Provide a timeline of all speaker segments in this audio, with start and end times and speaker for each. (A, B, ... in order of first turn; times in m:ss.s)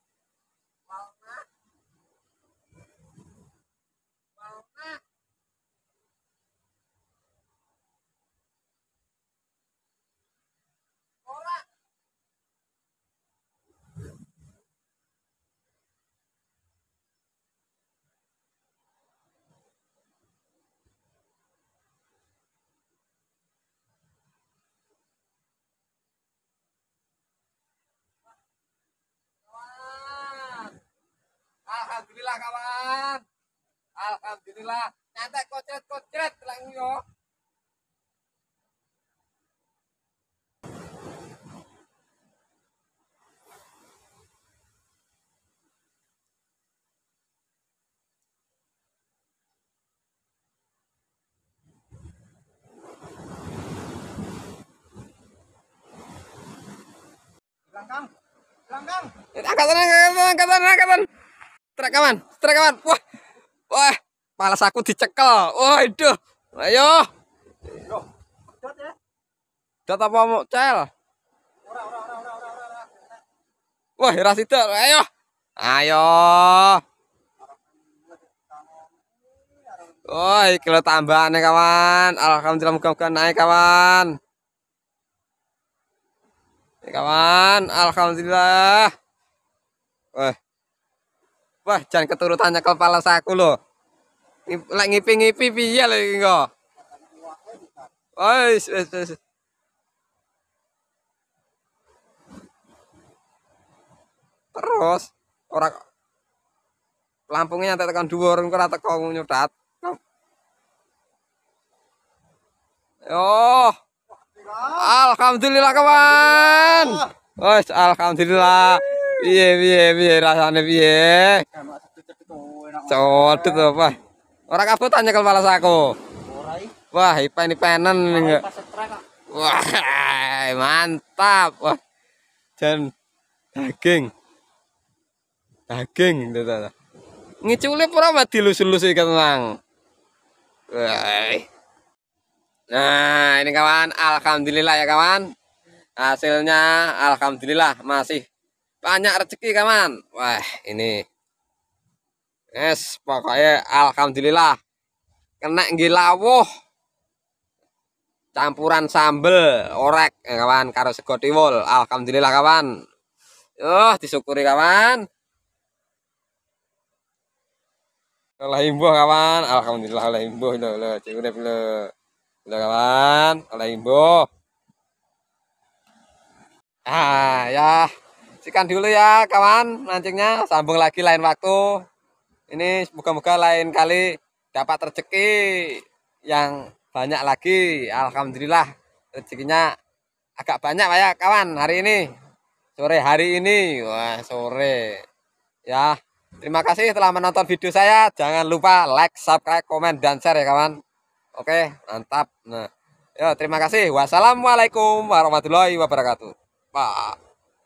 0:00.9-0:01.4 A
0:04.4-0:05.0 A
0:11.2-0:11.6 A
0:29.5-0:30.8 A
0:31.7-0:33.2 A
0:34.0-0:37.0 A
0:57.7-0:58.1 B
0:58.7-0:59.1 B
0:59.3-1:01.0 A
1:01.8-1:03.0 A
1:03.7-1:07.1 A
1:07.8-1:08.9 B
1:09.9-1:10.9 A
1:11.6-1:13.2 B
1:14.0-1:15.1 A
1:15.6-1:16.8 A
1:17.4-1:20.7 B
1:20.1-1:24.1 A
1:26.8-1:28.9 A
1:31.6-1:33.6 A
1:34.5-1:36.5 A
1:36.8-1:37.9 B
1:38.2-1:39.2 A
1:44.5-1:45.8 A
1:47.3-1:50.0 A
1:53.1-1:53.8 A
1:54.1-1:54.9 B
1:54.8-2:01.4 A
1:55.6-1:57.1 B
1:58.6-1:59.4 B
2:01.5-2:03.8 B
2:02.9-2:04.0 A
2:04.5-2:05.9 A
2:06.2-2:06.7 B
2:06.9-2:08.4 A
2:08.1-2:09.0 B
2:09.3-2:11.8 A
2:12.6-2:12.9 A
2:13.5-2:14.1 A
2:15.7-2:16.7 A
2:17.4-2:19.6 A
2:20.7-2:21.5 A
2:22.7-2:25.2 A
2:26.0-2:28.2 A
2:28.8-2:31.0 A
2:32.5-2:34.6 A
2:35.4-2:36.5 A
2:38.3-2:42.7 A
2:43.6-2:45.0 A
2:48.4-2:51.9 A
2:52.4-2:54.3 A
2:56.9-2:57.9 A
2:58.4-3:01.8 A
3:02.5-3:09.7 A
3:10.4-3:12.1 A
3:12.8-3:15.0 A
3:15.7-3:20.8 A
3:21.3-3:27.2 A